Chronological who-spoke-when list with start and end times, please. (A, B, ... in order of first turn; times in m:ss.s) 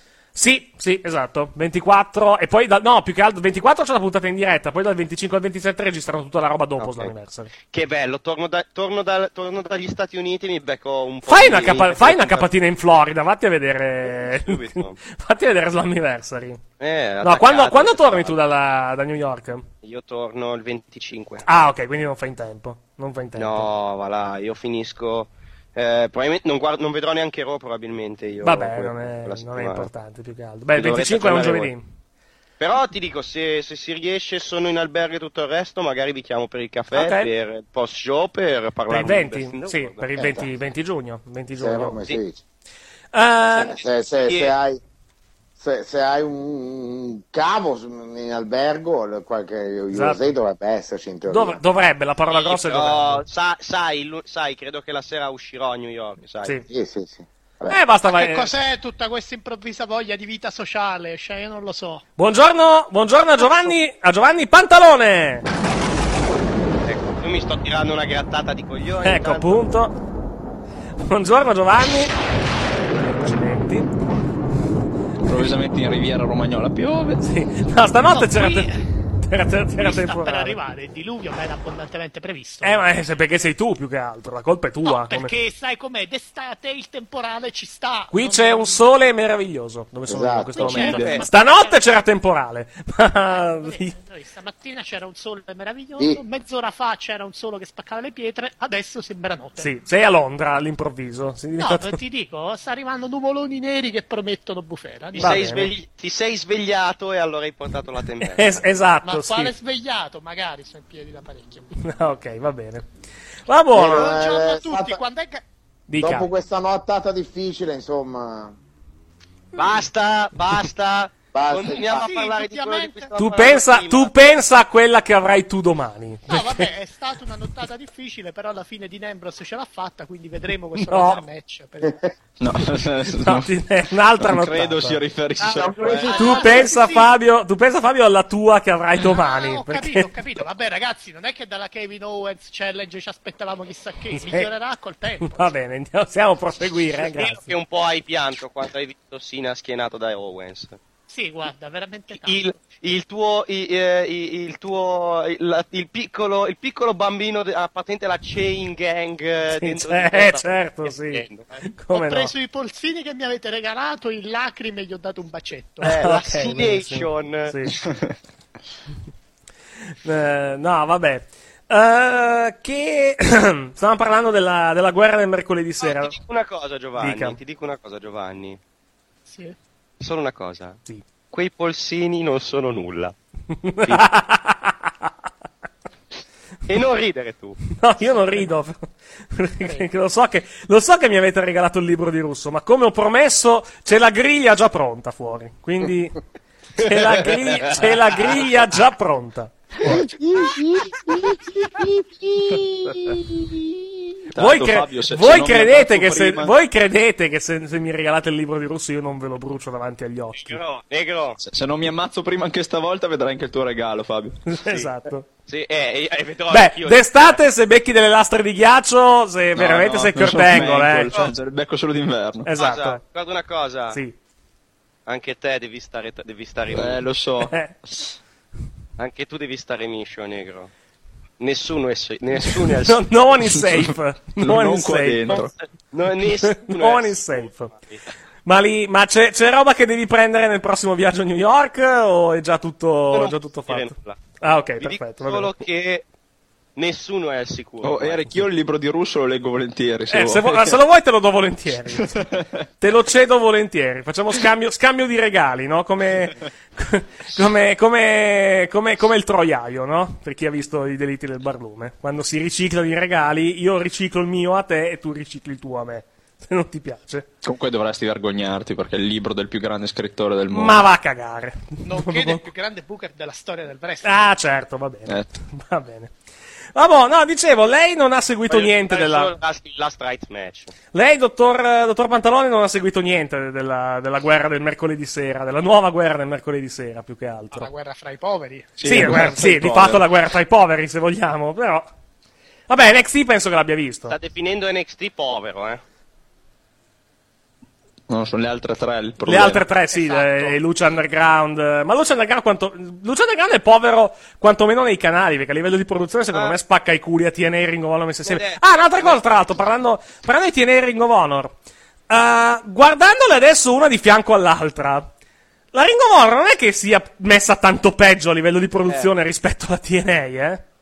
0:00.4-0:07.5 A
0:06.8-0:07.1 B
0:07.7-0:12.5 B
0:11.3-0:16.6 A
0:14.1-0:15.0 B
0:16.8-0:18.4 B
0:17.2-0:19.7 A
0:19.8-0:21.4 B
0:21.5-0:23.7 A
0:23.4-0:29.9 B
0:28.4-0:31.9 A
0:30.8-0:31.7 B
0:32.6-0:40.4 B
0:36.9-0:37.3 A
0:38.9-0:42.0 A
0:40.2-0:40.5 C
0:41.6-0:42.4 C
0:43.1-0:43.8 A
0:43.6-0:44.5 B
0:43.7-0:44.8 C
0:45.6-0:51.6 C
0:49.9-0:50.3 A
0:51.3-0:53.2 A
0:52.3-0:56.6 B
0:56.7-0:57.8 C
0:57.7-0:58.5 A
0:58.1-1:02.0 D
1:02.2-1:05.5 A
1:03.4-1:03.8 D
1:06.8-1:09.6 B
1:09.0-1:10.0 A
1:11.0-1:12.1 A
1:13.0-1:13.9 A
1:15.2-1:17.2 E
1:17.2-1:20.6 A
1:18.1-1:18.7 D
1:19.8-1:22.8 D
1:22.6-1:25.4 A
1:24.8-1:28.8 D
1:28.1-1:34.0 A
1:30.1-1:31.0 C
1:30.6-1:32.0 D
1:30.7-1:31.2 E
1:33.3-1:39.7 D
1:39.6-1:42.0 A
1:41.6-1:45.4 D
1:45.1-1:45.7 A
1:45.1-1:48.6 B
1:48.2-1:49.6 A
1:49.0-1:51.7 D
1:51.8-1:52.9 A
1:53.5-1:54.2 A
1:53.7-1:55.0 C
1:53.8-1:55.4 D
1:55.9-1:56.3 A
1:56.0-1:58.6 C
1:59.6-2:04.4 B
2:01.3-2:02.1 C
2:01.7-2:03.1 D
2:03.2-2:06.7 A
2:06.3-2:12.0 D
2:10.8-2:11.2 A
2:12.4-2:13.5 E
2:13.1-2:15.0 A
2:14.2-2:16.2 E
2:15.4-2:17.1 D
2:15.4-2:16.6 C
2:16.0-2:20.1 A
2:19.0-2:25.5 D
2:24.2-2:24.5 A
2:25.2-2:27.5 A
2:27.1-2:30.8 B
2:31.1-2:32.4 D
2:32.1-2:41.6 B
2:39.5-2:42.3 A
2:41.9-2:45.9 D
2:45.8-2:47.8 A
2:45.8-2:47.5 B
2:50.0-2:56.2 A
2:55.8-2:58.6 B
2:57.0-2:57.4 A
2:59.3-2:59.6 D
3:00.0-3:00.8 B
3:01.3-3:03.2 B
3:03.6-3:05.1 A
3:06.7-3:07.6 B
3:07.7-3:16.2 A
3:08.0-3:08.5 D
3:09.6-3:09.9 D
3:16.8-3:20.0 A
3:19.8-3:23.2 C
3:24.3-3:26.5 E
3:24.4-3:30.6 A
3:30.4-3:31.4 B
3:31.4-3:34.4 E
3:34.5-3:35.2 A
3:35.5-3:37.4 B
3:36.5-3:41.2 A
3:39.6-3:42.5 E
3:42.4-3:43.0 A
3:42.6-3:44.0 B
3:45.1-3:47.0 B
3:46.7-3:48.0 E
3:47.5-3:47.8 A
3:49.0-3:50.7 B
3:51.4-3:53.2 B
3:52.8-3:55.4 A
3:53.6-3:55.5 E
3:55.3-3:58.0 B
3:56.5-3:57.7 A
3:58.4-4:05.5 A
4:03.1-4:04.2 B
4:04.8-4:06.0 B
4:06.8-4:08.4 B
4:07.8-4:10.8 E
4:10.1-4:12.1 A
4:12.0-4:12.5 E
4:12.8-4:27.3 A
4:27.4-4:30.9 E
4:30.5-4:32.4 A
4:31.8-4:34.2 D
4:34.0-4:36.1 A
4:36.8-4:39.3 A
4:38.5-4:40.7 B
4:40.9-4:47.7 A
4:47.5-4:48.8 D
4:48.8-4:50.0 E
4:48.8-4:51.9 A
4:52.7-4:54.2 A
4:54.1-4:55.8 B
4:58.1-4:59.7 E
4:59.2-5:11.6 A
4:59.9-5:00.6 D
5:08.2-5:09.2 B
5:12.1-5:15.1 A
5:15.7-5:20.6 A